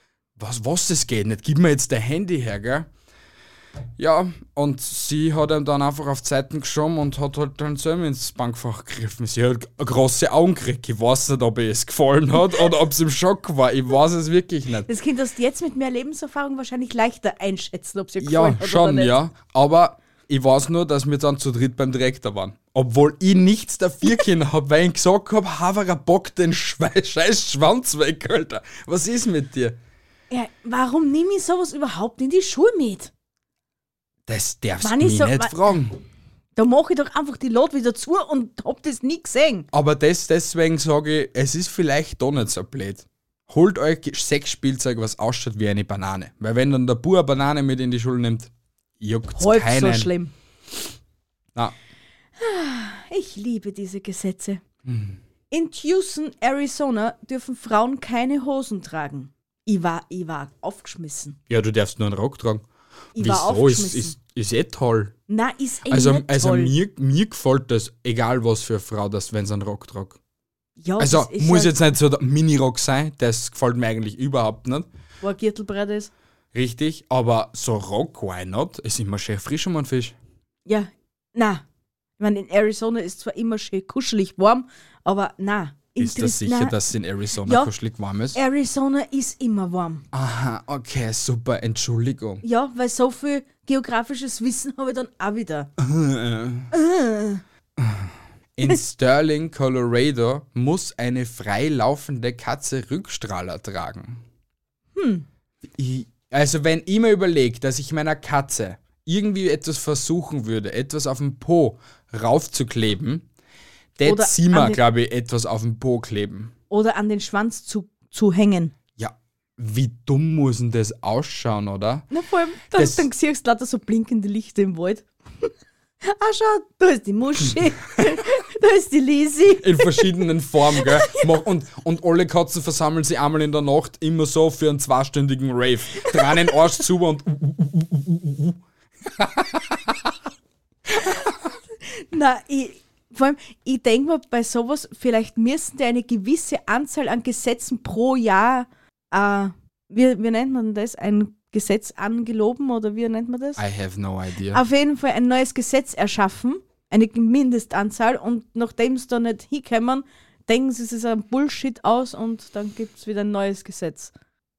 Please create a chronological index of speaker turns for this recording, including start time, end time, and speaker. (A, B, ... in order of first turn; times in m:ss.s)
0:00.4-0:02.9 A
0:04.0-0:14.9 A
0:14.9-0:19.2 B
0:18.2-0:29.8 A
0:30.3-0:33.1 B
0:34.3-0:36.0 A
0:34.8-0:35.8 B
0:36.6-0:39.7 B
0:39.7-0:50.1 A
0:49.4-0:50.3 B
0:52.4-0:54.6 B
0:54.8-0:55.2 A
0:55.5-1:01.4 B
1:01.5-1:02.6 A
1:03.2-1:04.2 B
1:03.2-1:05.2 A
1:05.3-1:06.7 B
1:05.9-1:10.2 A
1:10.8-1:11.8 B
1:11.0-1:14.9 A
1:15.2-1:16.1 B
1:16.5-1:20.2 A
1:20.7-1:21.6 B
1:22.2-1:26.8 B
1:26.0-1:28.4 A
1:27.4-1:27.7 B
1:28.3-1:30.0 B
1:30.1-1:32.4 A
1:32.4-1:35.7 B
1:35.8-1:36.7 A
1:36.7-1:37.4 B
1:37.8-1:44.2 A
1:45.0-1:45.3 B
1:45.7-1:53.3 A
1:54.0-1:56.5 A
1:54.0-1:54.8 B
1:56.7-1:58.7 B
1:59.0-2:02.1 A
2:02.1-2:05.5 B
2:02.8-2:03.1 A
2:06.0-2:10.2 B
2:09.6-2:20.1 A
2:10.7-2:11.3 B
2:21.0-2:21.3 A
2:21.0-2:33.6 B
2:33.6-2:34.6 A
2:34.5-2:44.1 B